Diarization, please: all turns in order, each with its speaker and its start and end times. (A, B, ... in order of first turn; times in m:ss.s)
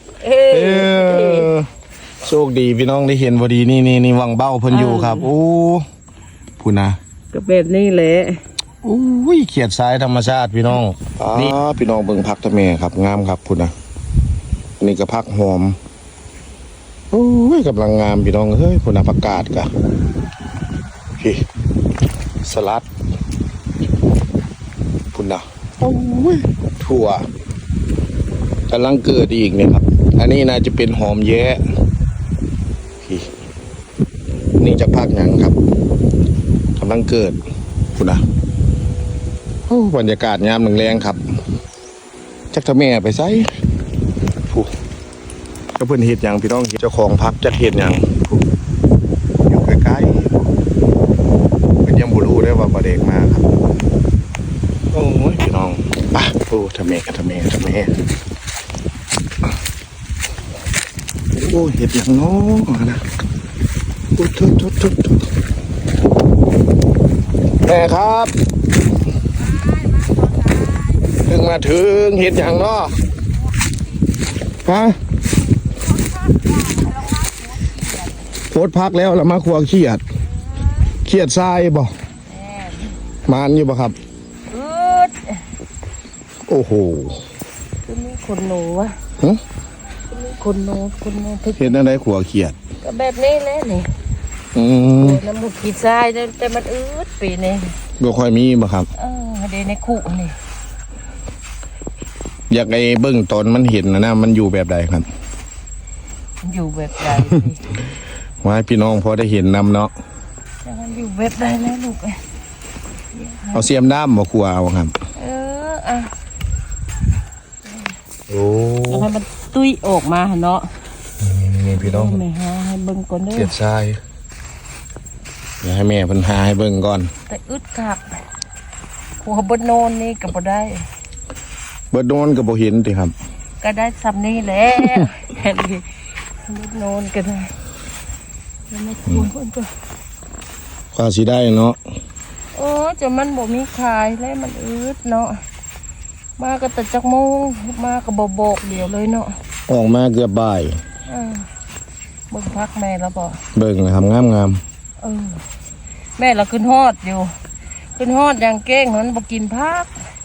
0:00.2-0:01.5 A
0:00.5-0:01.7 B
0:02.2-0:05.8 B
0:04.7-0:05.3 A
0:06.6-0:07.0 B
0:07.3-0:08.4 A
0:08.8-0:13.7 B
0:14.8-0:15.8 B
0:17.1-0:19.7 B
0:21.2-0:21.4 B
0:22.4-0:22.9 B
0:25.1-0:27.3 B
0:28.7-0:31.6 B
0:33.0-0:33.3 B
0:34.6-0:35.6 B
0:36.8-0:37.4 B
0:37.9-0:38.2 B
0:39.7-0:41.2 B
0:42.5-0:43.5 B
0:45.8-0:48.4 B
0:49.4-0:50.5 B
0:51.8-0:53.4 B
0:54.9-0:57.9 B
1:01.3-1:03.0 B
1:04.2-1:05.2 B
1:07.6-1:08.3 B
1:11.2-1:13.0 B
1:14.6-1:15.0 B
1:15.9-1:18.2 A
1:18.5-1:20.0 B
1:21.0-1:21.9 B
1:22.3-1:22.9 A
1:23.2-1:24.0 B
1:24.5-1:25.4 A
1:26.5-1:27.2 B
1:27.8-1:28.9 A
1:30.1-1:31.8 A
1:31.6-1:32.6 B
1:32.8-1:33.9 A
1:34.5-1:35.2 B
1:35.0-1:37.8 A
1:38.0-1:38.9 B
1:39.0-1:40.4 A
1:42.5-1:45.1 B
1:46.4-1:47.8 A
1:48.4-1:49.9 B
1:50.6-1:52.2 A
1:53.2-1:53.7 A
1:53.5-1:54.9 B
1:55.1-1:56.1 A
1:58.3-1:59.1 B
1:58.9-2:00.7 A
2:01.2-2:02.2 B
2:01.7-2:03.5 A
2:03.3-2:04.0 B
2:05.6-2:07.1 B
2:07.3-2:08.0 A
2:09.2-2:10.8 A
2:11.9-2:13.1 B
2:13.6-2:15.9 A
2:16.4-2:17.5 A
2:18.7-2:19.7 A
2:20.9-2:21.8 B
2:22.5-2:25.4 A
2:26.4-2:29.3 A
2:29.7-2:30.8 B
2:31.1-2:31.5 A
2:32.3-2:33.4 A
2:33.5-2:34.6 B
2:35.0-2:35.4 A
2:36.2-2:37.3 A
2:38.0-2:39.9 A